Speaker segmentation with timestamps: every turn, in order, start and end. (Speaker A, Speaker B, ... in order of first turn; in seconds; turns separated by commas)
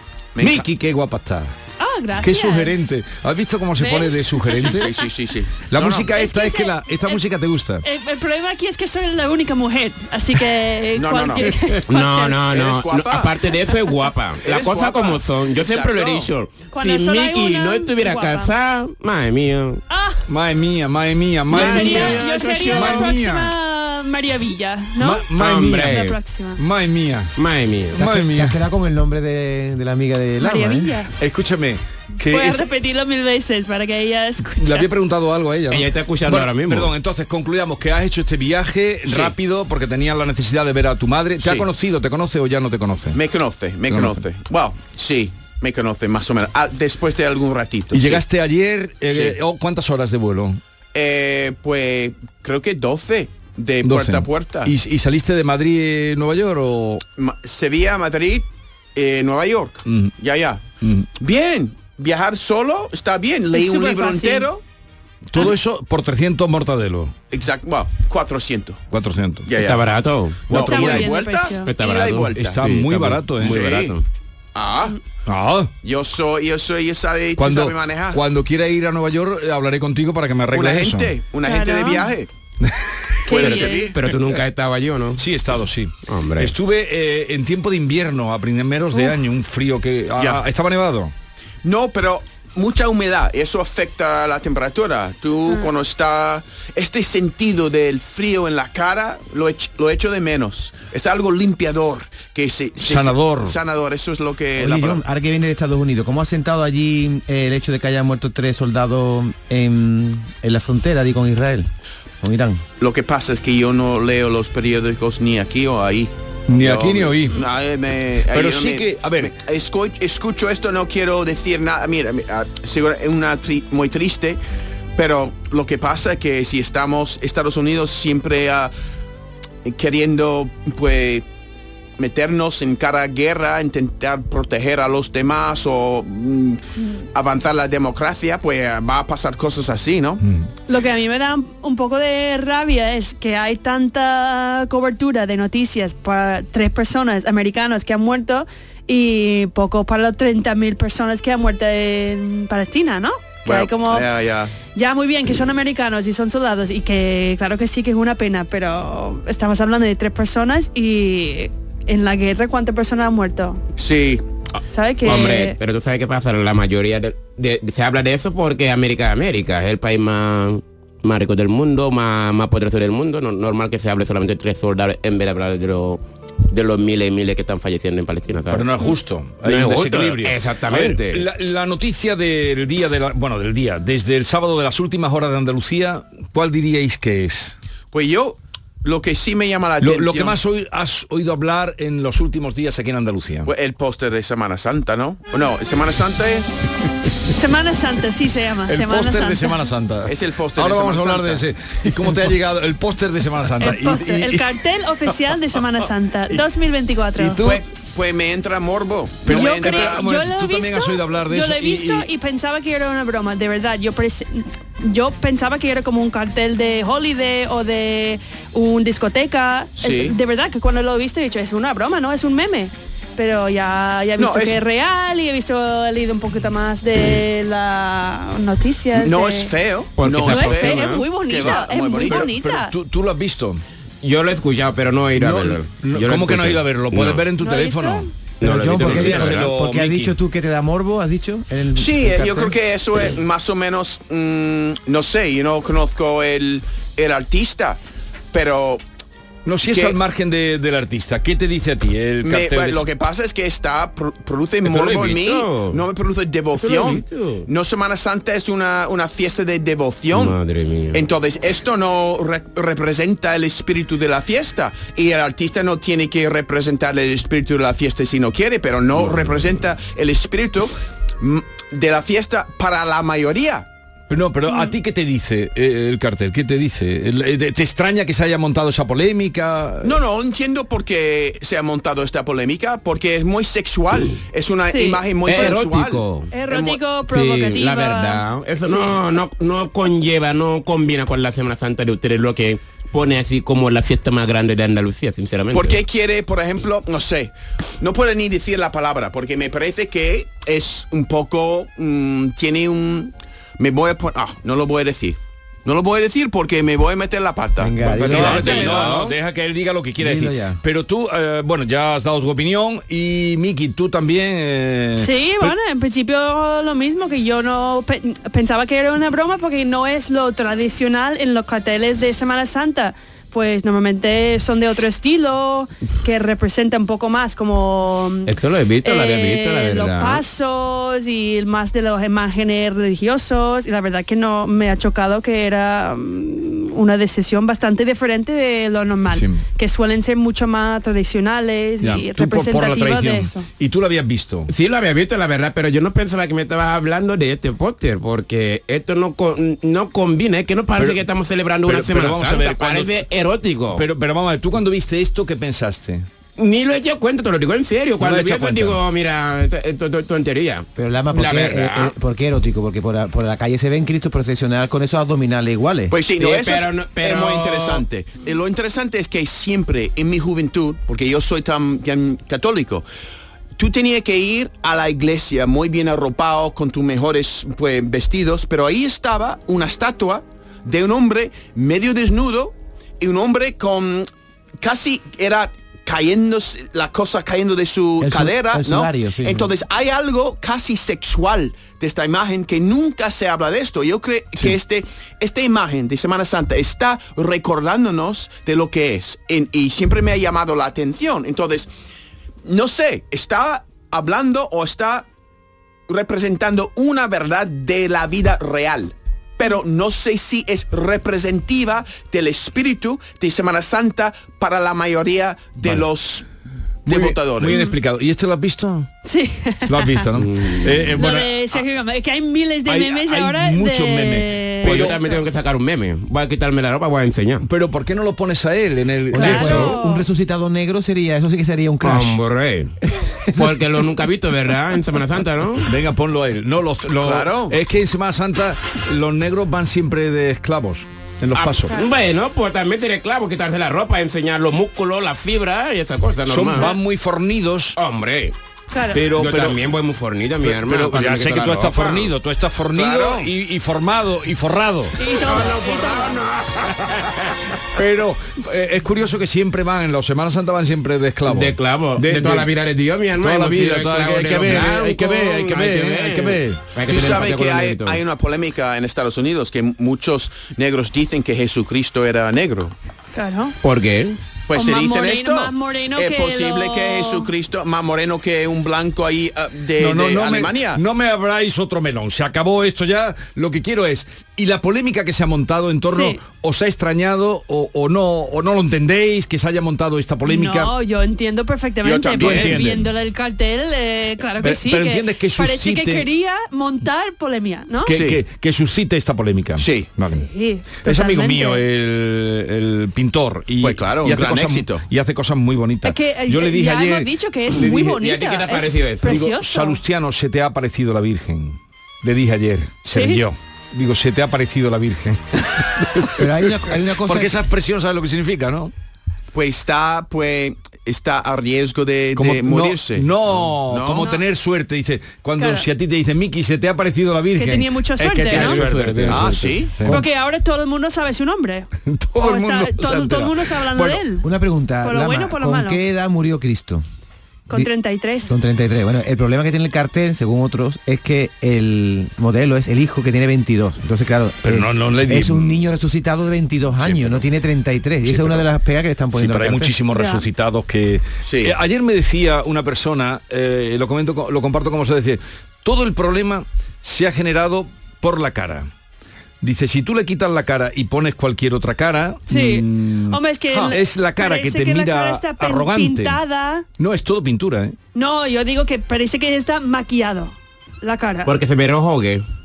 Speaker A: 0.3-0.7, Speaker B: 0.4-1.5, Speaker C: 1.8-2.9, Speaker B: 2.2-4.9, Speaker C: 3.8-4.9, Speaker A: 4.6-6.1, Speaker B: 5.7-7.8, Speaker C: 6.2-7.2, Speaker C: 7.8-12.4, Speaker A: 10.9-11.5, Speaker D: 11.9-19.8, Speaker A: 12.5-13.3, Speaker A: 14.4-16.3, Speaker C: 16.7-18.5, Speaker C: 19.9-20.2, Speaker B: 20.3-23.5, Speaker D: 21.5-23.1, Speaker C: 21.5-26.6, Speaker B: 25.0-26.1, Speaker D: 25.4-26.2, Speaker B: 26.6-27.3, Speaker D: 27.4-28.0, Speaker B: 27.9-28.6, Speaker E: 28.0-30.9, Speaker C: 30.4-31.1, Speaker B: 31.2-32.7, Speaker C: 32.2-34.9, Speaker B: 34.6-43.2, Speaker D: 35.7-36.9, Speaker D: 39.1-39.3, Speaker A: 41.4-41.7, Speaker A: 43.1-48.2, Speaker B: 43.9-44.2, Speaker B: 47.9-50.6, Speaker A: 49.1-49.4, Speaker A: 50.9-54.7, Speaker B: 53.8-57.0, Speaker A: 57.2-60.7, Speaker B: 59.9-60.1, Speaker B: 60.8-61.1, Speaker A: 61.2-64.6, Speaker C: 63.5-64.5, Speaker B: 65.3-67.1, Speaker A: 67.3-68.8, Speaker B: 68.9-69.5, Speaker A: 69.5-69.8, Speaker D: 69.6-70.5, Speaker A: 70.5-72.7, Speaker B: 70.5-71.1, Speaker C: 70.5-71.7, Speaker D: 71.7-74.0, Speaker B: 72.4-73.6, Speaker A: 73.4-74.0, Speaker A: 74.5-75.0, Speaker B: 75.3-75.7, Speaker A: 75.8-78.2, Speaker B: 77.4-81.2, Speaker A: 80.5-82.3, Speaker C: 81.5-82.1, Speaker B: 82.6-83.1, Speaker C: 83.3-83.9, Speaker A: 83.3-84.0, Speaker D: 83.3-85.2, Speaker B: 85.2-91.1, Speaker D: 86.1-86.5, Speaker C: 88.9-89.2, Speaker A: 91.6-105.0, Speaker B: 102.8-103.6, Speaker E: 104.6-111.7, Speaker E: 112.2-112.6, Speaker A: 112.8-124.4, Speaker B: 116.5-117.5, Speaker B: 118.3-119.3, Speaker A: 125.0-128.7, Speaker A: 129.7-131.3, Speaker A: 132.0-136.6, Speaker A: 137.1-140.2, Speaker C: 140.7-154.1, Speaker A: 153.4-154.5, Speaker C: 154.7-163.6, Speaker A: 163.8-164.2, Speaker C: 164.7-165.6, Speaker D: 165.0-178.8, Speaker B: 178.5-187.6, Speaker D: 179.4-181.2, Speaker A: 187.9-190.4, Speaker B: 189.8-193.5, Speaker A: 193.5-196.5, Speaker C: 197.3-199.6, Speaker B: 198.7-204.5, Speaker A: 200.1-202.1, Speaker C: 203.6-207.5, Speaker B: 207.2-207.6, Speaker A: 207.4-210.0, Speaker B: 209.2-212.1, Speaker C: 209.3-229.5, Speaker A: 219.8-220.2, Speaker A: 224.2-224.6, Speaker A: 228.9-232.3, Speaker D: 230.0-231.1, Speaker C: 230.2-232.7, Speaker B: 232.0-233.6, Speaker D: 234.0-237.2, Speaker B: 235.2-238.1, Speaker C: 237.4-238.1, Speaker D: 238.4-239.5, Speaker E: 238.4-242.6, Speaker B: 238.7-240.1, Speaker A: 241.8-247.8, Speaker A: 248.3-248.8, Speaker B: 249.4-252.9, Speaker A: 249.6-250.0, Speaker A: 252.2-260.4, Speaker D: 254.6-255.8, Speaker D: 256.6-257.5, Speaker D: 260.1-261.0, Speaker A: 260.9-273.7, Speaker B: 274.1-280.0, Speaker C: 274.5-274.8, Speaker A: 279.8-286.8, Speaker C: 284.7-285.0, Speaker D: 285.3-286.3, Speaker C: 286.3-289.0, Speaker D: 287.1-295.8, Speaker A: 295.5-308.5, Speaker E: 307.6-308.9, Speaker B: 307.9-315.5, Speaker D: 308.0-309.2, Speaker E: 310.0-310.6, Speaker C: 315.0-343.5, Speaker D: 328.3-330.2, Speaker B: 339.1-339.4, Speaker B: 341.8-344.5, Speaker D: 344.5-353.9, Speaker B: 350.8-351.0, Speaker B: 351.7-352.9, Speaker B: 353.7-356.1, Speaker D: 356.4-361.9, Speaker B: 358.0-358.8, Speaker E: 360.8-365.9, Speaker A: 365.9-372.9, Speaker D: 366.2-367.9, Speaker A: 373.6-384.1, Speaker A: 384.6-401.7, Speaker E: 388.0-389.5, Speaker A: 402.4-405.1, Speaker A: 405.9-416.3, Speaker A: 416.9-417.6, Speaker B: 416.9-418.9, Speaker C: 417.5-417.8, Speaker C: 419.1-420.1, Speaker B: 419.7-421.6, Speaker D: 420.2-420.9, Speaker C: 421.0-425.2, Speaker B: 422.7-425.0, Speaker D: 424.6-427.5, Speaker B: 427.4-429.8, Speaker E: 429.1-432.2, Speaker C: 429.1-430.1, Speaker D: 431.8-432.8, Speaker E: 433.0-433.6, Speaker D: 433.3-435.7, Speaker B: 435.7-441.7, Speaker A: 437.0-437.6, Speaker D: 441.4-446.7, Speaker B: 446.3-447.8, Speaker D: 447.8-448.3, Speaker C: 448.7-449.0, Speaker B: 448.9-449.7, Speaker D: 449.2-452.1, Speaker B: 450.4-454.9, Speaker A: 452.7-453.3, Speaker C: 455.0-456.2, Speaker D: 455.1-457.4, Speaker B: 457.8-462.5, Speaker D: 461.3-468.0, Speaker B: 463.2-466.6, Speaker A: 466.9-472.7, Speaker C: 473.1-473.6, Speaker D: 473.6-474.2, Speaker A: 474.5-480.8, Speaker C: 474.5-477.3, Speaker B: 479.8-490.7, Speaker C: 485.9-486.2, Speaker C: 490.2-498.0, Speaker A: 491.8-492.7, Speaker B: 492.2-492.9, Speaker B: 494.4-496.1, Speaker B: 497.9-500.3, Speaker A: 497.9-498.2, Speaker A: 499.6-499.9, Speaker C: 500.1-501.6, Speaker B: 500.8-507.8, Speaker A: 503.6-504.9, Speaker C: 505.8-509.8, Speaker D: 507.6-509.2, Speaker B: 509.0-516.3, Speaker C: 512.9-513.2, Speaker E: 516.1-517.4, Speaker B: 517.0-518.7, Speaker A: 519.3-524.1, Speaker B: 522.2-530.0, Speaker C: 525.4-525.7, Speaker C: 527.4-528.6, Speaker D: 528.3-529.6, Speaker A: 529.1-529.8, Speaker C: 529.9-534.2, Speaker B: 531.9-534.0, Speaker E: 534.2-536.8, Speaker C: 534.8-535.8, Speaker C: 537.5-538.3, Speaker E: 538.3-549.8, Speaker B: 544.5-545.7, Speaker B: 546.8-547.2, Speaker B: 548.0-548.5, Speaker B: 549.1-558.7, Speaker C: 549.9-550.2, Speaker A: 551.2-551.5, Speaker B: 559.4-566.2, Speaker C: 562.3-566.7, Speaker B: 566.8-567.8, Speaker C: 568.0-571.3, Speaker D: 571.3-572.2